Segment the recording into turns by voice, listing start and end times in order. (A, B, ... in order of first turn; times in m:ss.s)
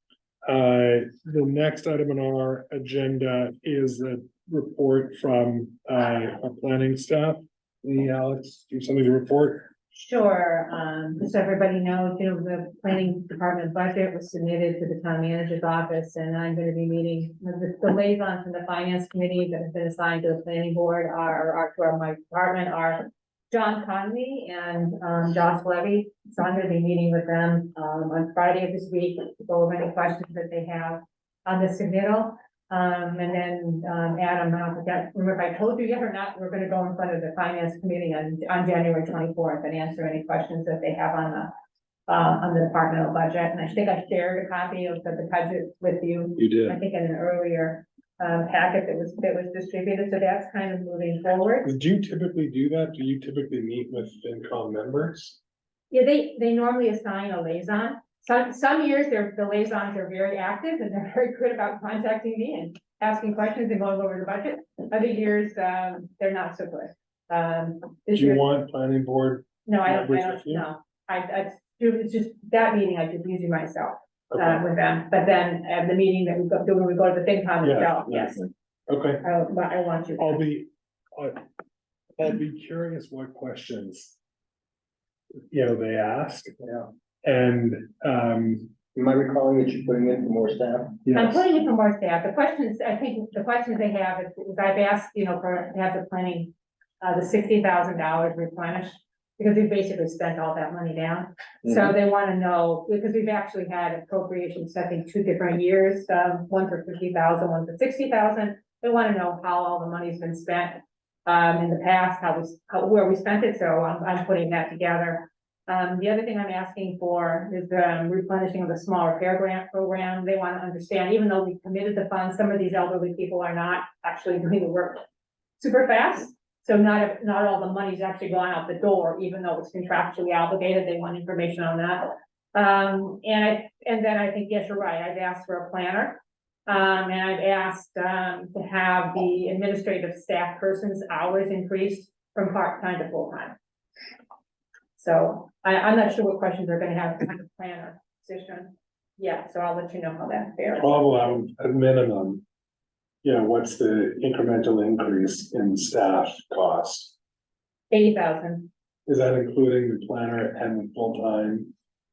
0:00.4-0:09.7 A
0:09.9-0:41.5 B
0:42.1-0:51.7 B
0:46.4-0:46.8 A
0:51.6-0:55.4 A
0:55.9-1:08.4 B
1:08.1-1:10.7 A
1:09.6-1:18.4 B
1:14.3-1:14.6 A
1:17.6-1:19.2 A
1:19.2-1:20.4 B
1:20.2-1:21.4 A
1:22.2-1:24.2 A
1:25.5-1:28.8 A
1:28.9-1:31.0 C
1:31.0-1:31.4 A
1:31.1-2:05.0 B
2:05.6-2:23.6 B
2:25.0-2:31.1 B
2:30.8-2:32.4 A
2:33.2-2:37.1 A
2:37.9-2:38.7 B
2:39.1-2:41.7 A